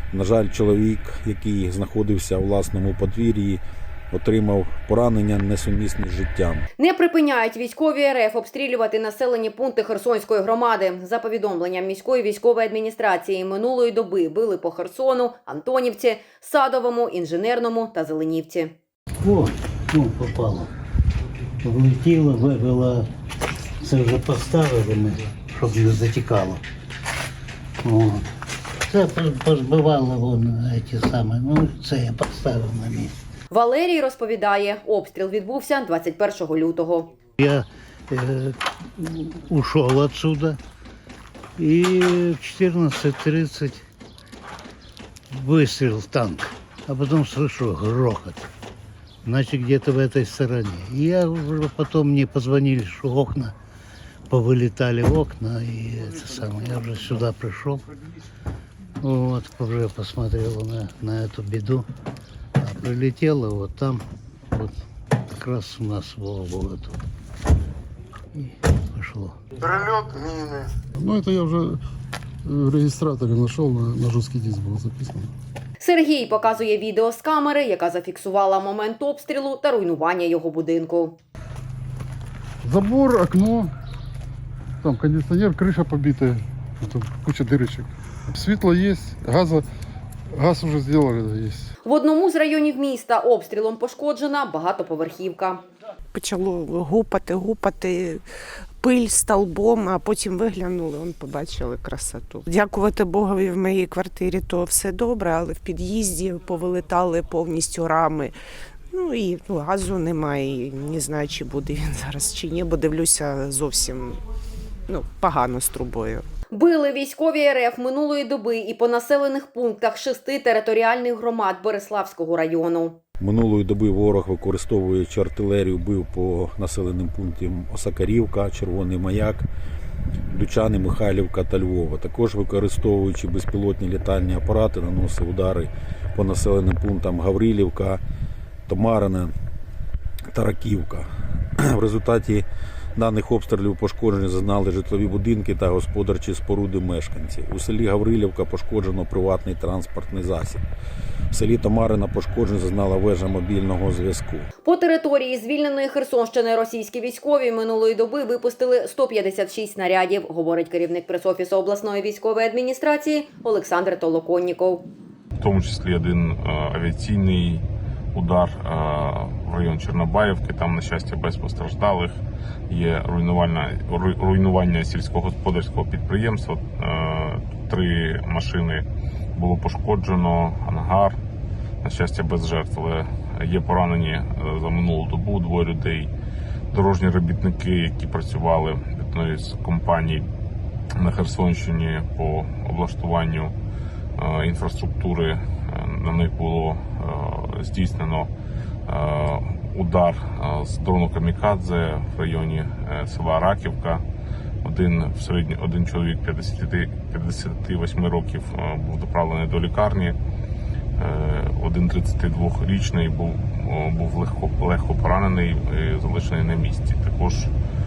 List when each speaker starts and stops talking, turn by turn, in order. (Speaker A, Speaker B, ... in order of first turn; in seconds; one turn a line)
Speaker A: 0.1-6.7
Speaker B: 6.8-18.7
Speaker C: 19.2-20.7
Speaker C: 21.6-23.1
Speaker C: 23.8-26.6
Speaker C: 27.8-28.2
Speaker C: 28.9-33.1
Speaker B: 33.5-37.1
Speaker C: 37.4-40.6
Speaker C: 41.6-43.8
Speaker C: 45.3-48.5
Speaker C: 49.2-53.5
Speaker C: 54.3-57.8
Speaker C: 59.0-61.9
Speaker C: 62.6-64.7
Speaker C: 65.3-67.0
Speaker C: 68.4-70.1
Speaker D: 70.9-71.8
Speaker D: 72.5-75.3
Speaker B: 75.8-81.2
Speaker D: 82.6-83.7
Speaker D: 84.8-89.7
Speaker D: 90.3-91.7
Speaker B: 91.8-95.6
Speaker E: 96.1-98.2
Speaker E: 98.8-108.3
Speaker E: 108.9-114.2
Speaker E: 114.9-116.2
Speaker B: 116.5-123.0
Speaker A: 123.2-129.5
Speaker A: 130.3-138.0
Speaker A: 138.7-139.3
Speaker A: 140.3-141.1
Speaker A: 141.6-150.6
Speaker A: 151.3-154.5
Speaker B: 154.6-164.9
Speaker F: 165.4-181.2
Speaker F: 181.8-186.1
Speaker F: 186.7-190.3
Speaker F: 191.0-193.6
Speaker F: 194.2-198.3
Speaker F: 198.9-204.1
Speaker F: 204.6-210.2
Speaker F: 211.0-217.5